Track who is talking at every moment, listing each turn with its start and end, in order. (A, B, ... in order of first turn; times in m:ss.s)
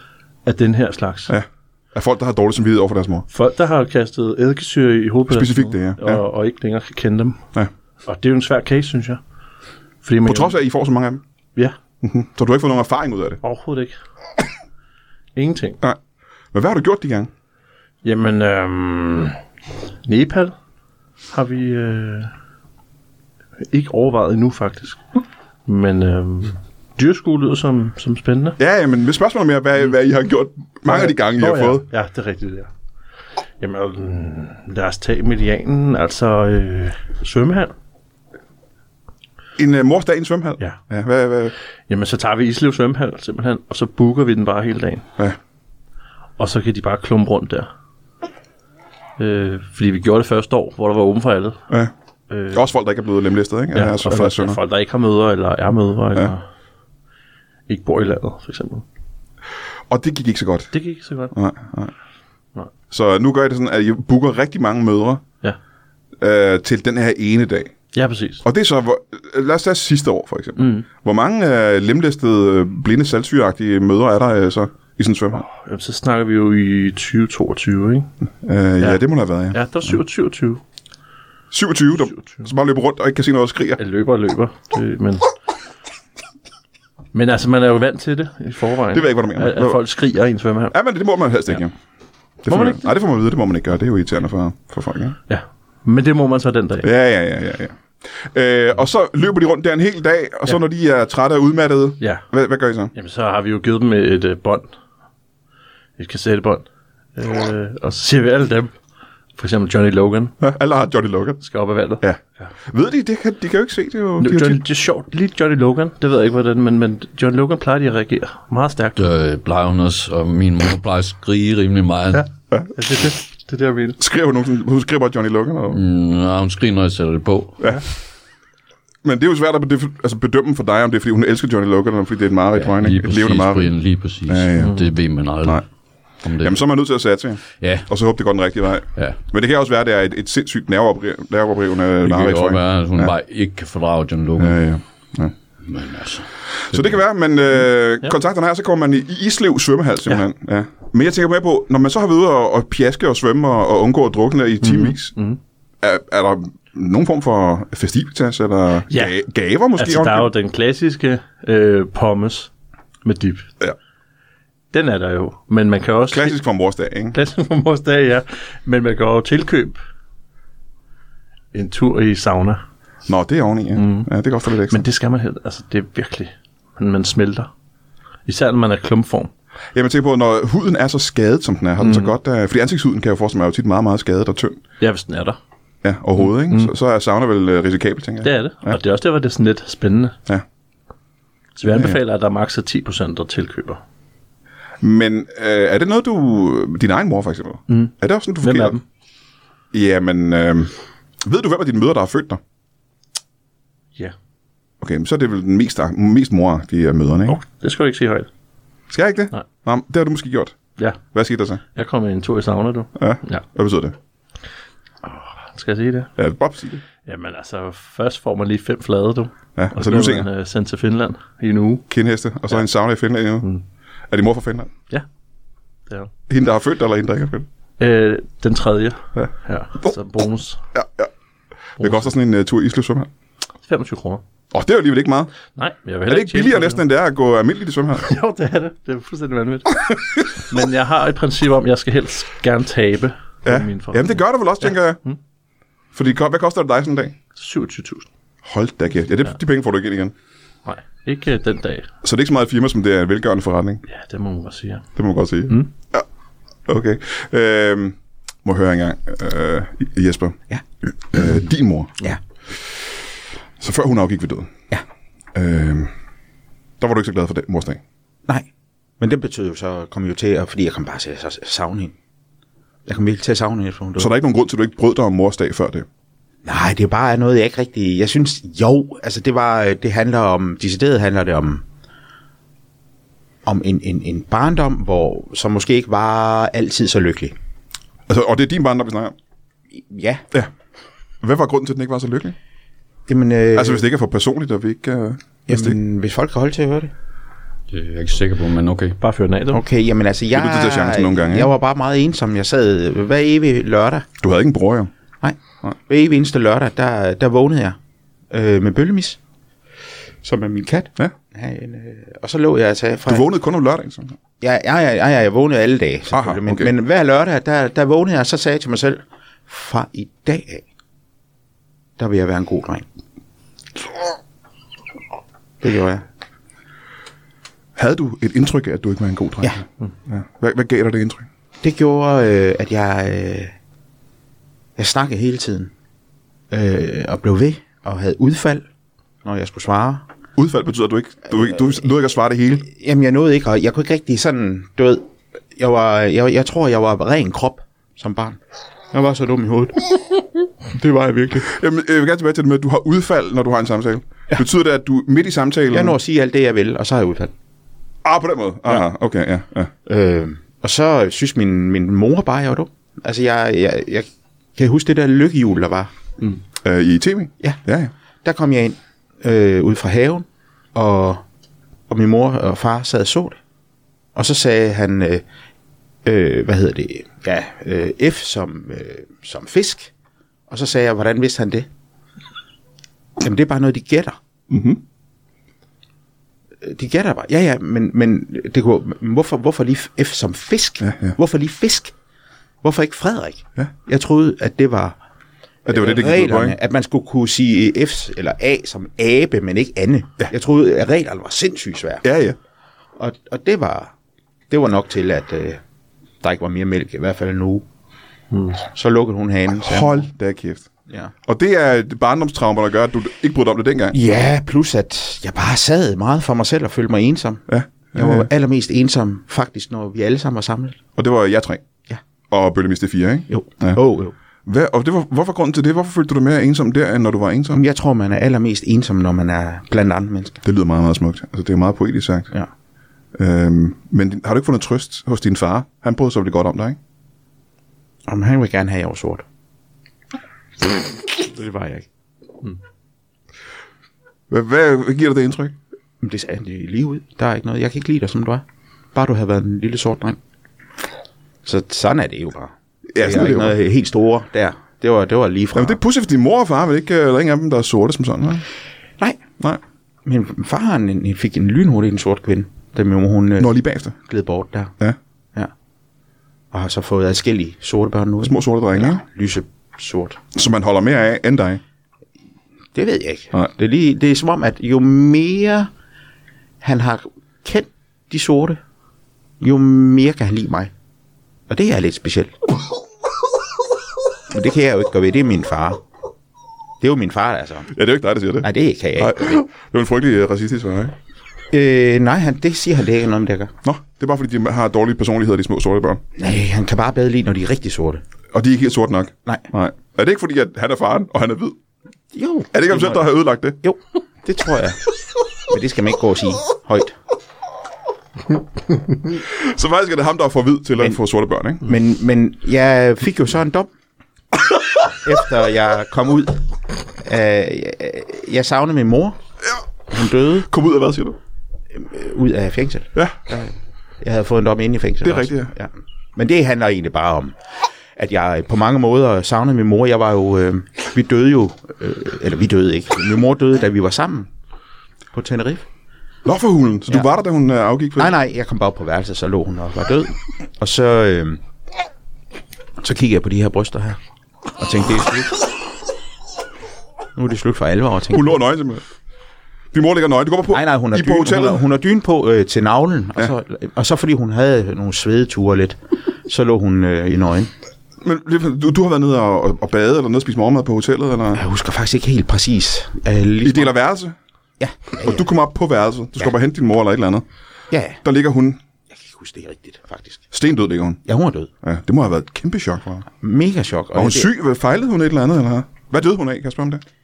0:00.4-0:01.3 A
0:01.3-0:03.3 B
0:03.3-0:07.4 A
0:05.3-0:06.2 B
0:08.0-0:09.2 A
0:10.0-0:10.5 A
0:10.3-0:11.2 B
0:12.0-0:13.4 B
0:13.4-0:14.0 A
0:15.4-0:15.8 A
0:16.5-0:17.3 B
0:18.0-0:19.4 A
0:20.0-0:20.5 A
0:21.3-0:22.3 A
0:23.7-0:25.0 A
0:25.7-0:28.6 A
0:28.6-0:31.8 B
0:30.9-0:32.7 A
0:33.6-0:37.7 A
0:39.6-0:41.5 B
0:41.9-0:45.1 A
0:46.4-0:47.7 A
0:49.2-0:51.6 A
0:52.3-0:52.6 A
0:52.5-0:54.6 B
0:53.7-0:56.4 A
0:57.7-0:58.8 A
0:59.9-1:00.7 B
1:00.7-1:01.3 A
1:01.3-1:01.9 B
1:02.9-1:05.2 B
1:06.2-1:07.7 B
1:07.9-1:08.4 A
1:08.4-1:15.4 B
1:10.6-1:10.8 A
1:15.4-1:18.1 A
1:18.4-1:20.0 B
1:19.5-1:20.6 A
1:21.5-1:23.8 B
1:23.8-1:25.3 A
1:27.1-1:30.7 A
1:28.9-1:29.8 B
1:30.7-1:31.7 B
1:32.4-1:35.2 B
1:32.5-1:32.8 A
1:35.3-1:36.9 A
1:36.8-1:42.9 B
1:42.9-1:44.7 A
1:46.0-1:48.7 A
1:49.4-1:50.4 A
1:50.4-1:51.4 B
1:51.4-1:52.5 A
1:52.0-1:54.6 B
1:54.2-1:59.1 A
1:59.0-2:02.3 C
2:02.1-2:04.0 A
2:04.0-2:05.8 B
2:05.7-2:07.6 C
2:09.0-2:13.7 B
2:12.6-2:15.6 C
2:14.3-2:14.8 B
2:14.6-2:14.9 A
2:16.2-2:16.6 C
2:16.4-2:23.1 B
2:17.6-2:17.9 C
2:22.0-2:24.6 C
2:24.4-2:25.3 B
2:25.6-2:26.9 C
2:26.7-2:35.1 B
2:34.6-2:35.4 A
2:35.8-2:40.3 B
2:38.9-2:39.2 A
2:39.8-2:42.5 A
2:43.0-2:43.5 A
2:44.7-2:46.4 A
2:46.1-2:47.2 B
2:47.1-2:49.8 A
2:51.5-2:52.6 A
2:53.1-2:54.8 B
2:53.8-2:54.1 A
2:54.7-2:57.5 A
2:58.3-2:59.3 A
2:59.8-3:04.6 B
3:01.8-3:02.1 A
3:04.8-3:05.4 A
3:05.8-3:08.8 B
3:08.2-3:10.2 A
3:11.6-3:13.8 A
3:11.7-3:12.0 B
3:14.8-3:18.8 B
3:17.7-3:18.8 A
3:19.7-3:22.4 B
3:24.8-3:27.4 B
3:27.3-3:28.3 A
3:28.9-3:31.6 B
3:31.7-3:33.4 A
3:33.0-3:34.0 B
3:35.0-3:36.1 A
3:36.2-3:36.8 B
3:37.0-3:41.9 A
3:39.6-3:40.3 B
3:41.9-3:43.5 B
3:44.1-3:44.7 B
3:46.3-3:47.5 B
3:47.8-3:50.6 A
3:49.2-3:50.0 B
3:50.7-3:51.1 B
3:51.8-3:53.1 B
3:51.8-3:52.1 A
3:53.6-3:54.2 A
3:54.5-3:55.3 B
3:55.6-3:56.8 A
3:56.1-3:58.1 B
3:58.1-4:05.2 A
4:03.4-4:05.0 B
4:06.0-4:07.2 B
4:07.4-4:08.1 A
4:08.4-4:10.1 B
4:10.6-4:11.9 A
4:12.0-4:13.8 B
4:13.9-4:14.9 A
4:15.0-4:16.0 B
4:16.7-4:20.4 B
4:21.1-4:22.0 B
4:23.6-4:24.5 B
4:25.3-4:25.9 B
4:26.8-4:27.8 B
4:29.0-4:32.0 D
4:32.9-4:34.1 D
4:34.0-4:35.9 B
4:36.4-4:41.6 D
4:43.4-4:47.4 D
4:48.1-4:49.1 B
4:49.7-4:50.2 D
4:51.2-4:52.4 B
4:53.1-4:53.8 D
4:53.6-4:55.8 B
4:55.5-4:56.9 D
4:57.7-4:59.0 C
4:59.0-4:59.6 A
4:59.5-5:04.1 D
5:00.3-5:01.5 B
5:04.2-5:04.9 B
5:05.2-5:07.8 D
5:08.3-5:09.2 D
5:10.2-5:13.3 D
5:13.1-5:14.2 B
5:14.4-5:20.6 D
5:16.1-5:16.7 B
5:22.0-5:22.8 D
5:25.6-5:26.0 D
5:27.8-5:31.3 B
5:31.6-5:33.5 D
5:34.8-5:35.7 D
5:36.5-5:38.6 D
5:39.2-5:40.1 D
5:40.4-5:42.7 B
5:42.6-5:48.4 D
5:48.9-5:51.5 D
5:51.4-5:56.0 B
5:55.7-5:57.3 D
5:58.0-5:59.7 B
5:59.9-6:05.9 D
6:06.6-6:07.9 B
6:08.2-6:11.2 D
6:11.9-6:13.4 D
6:14.2-6:15.2 D
6:16.0-6:19.9 D
6:20.5-6:21.7 D
6:23.2-6:24.2 D
6:24.5-6:24.8 B
6:26.6-6:31.9 D
6:30.8-6:31.2 B
6:32.6-6:35.0 D
6:35.7-6:36.6 B
6:35.7-6:42.0 D
6:42.0-6:42.4 B
6:43.0-6:43.9 D
6:44.5-6:45.6 D
6:46.2-6:47.6 D
6:48.3-6:48.6 A
6:48.6-6:50.0 D
6:49.6-6:50.7 B
6:50.9-6:51.1 D
6:51.3-6:54.0 B
6:53.9-6:57.4 D
6:57.5-6:58.3 B
6:58.0-7:00.8 D
7:01.0-7:01.6 B
7:02.3-7:03.8 B
7:03.3-7:04.1 D
7:04.5-7:07.6 B
7:07.5-7:10.4 D
7:10.4-7:12.3 B
7:13.2-7:16.8 B
7:18.1-7:19.2 D
7:21.0-7:21.9 D
7:24.3-7:25.6 B
7:26.0-7:30.2 D
7:31.4-7:35.8 D
7:32.9-7:33.6 B
7:35.5-7:38.4 B
7:40.0-7:44.7 D
7:43.4-7:44.0 B
7:46.5-7:50.2 D
7:48.2-7:49.0 B
7:50.3-7:51.6 B
7:52.7-7:55.7 D
7:56.6-7:58.6 D
7:59.4-8:00.7 D
8:01.5-8:02.3 D
8:04.3-8:05.8 D
8:06.8-8:07.7 D
8:07.7-8:11.0 B
8:08.4-8:09.4 D
8:11.5-8:13.5 D
8:13.6-8:16.0 B
8:16.2-8:18.0 D
8:18.3-8:21.6 B
8:22.1-8:23.1 D
8:22.5-8:23.6 B
8:23.6-8:24.8 D
8:25.5-8:27.0 D
8:29.2-8:31.6 B
8:31.6-8:33.7 D
8:34.9-8:39.2 D
8:39.9-8:40.5 D
8:40.5-8:41.2 B
8:41.7-8:47.4 D
8:45.0-8:45.5 B
8:48.0-8:54.3 D
8:55.1-8:55.7 D
8:56.2-8:58.1 B
8:58.0-9:01.4 D
9:02.8-9:04.0 D
9:04.6-9:05.4 D
9:07.2-9:08.4 D
9:08.1-9:08.8 B
9:09.7-9:11.6 B
9:10.5-9:17.5 D
9:18.0-9:21.4 B
9:21.4-9:23.7 D
9:23.4-9:24.2 B
9:24.6-9:25.3 D
9:25.0-9:27.2 B
9:27.7-9:28.0 D
9:28.0-9:28.6 B
9:28.9-9:30.2 D
9:30.3-9:31.0 B
9:31.0-9:31.5 D
9:31.6-9:33.1 B
9:33.1-9:34.3 D
9:33.9-9:36.8 B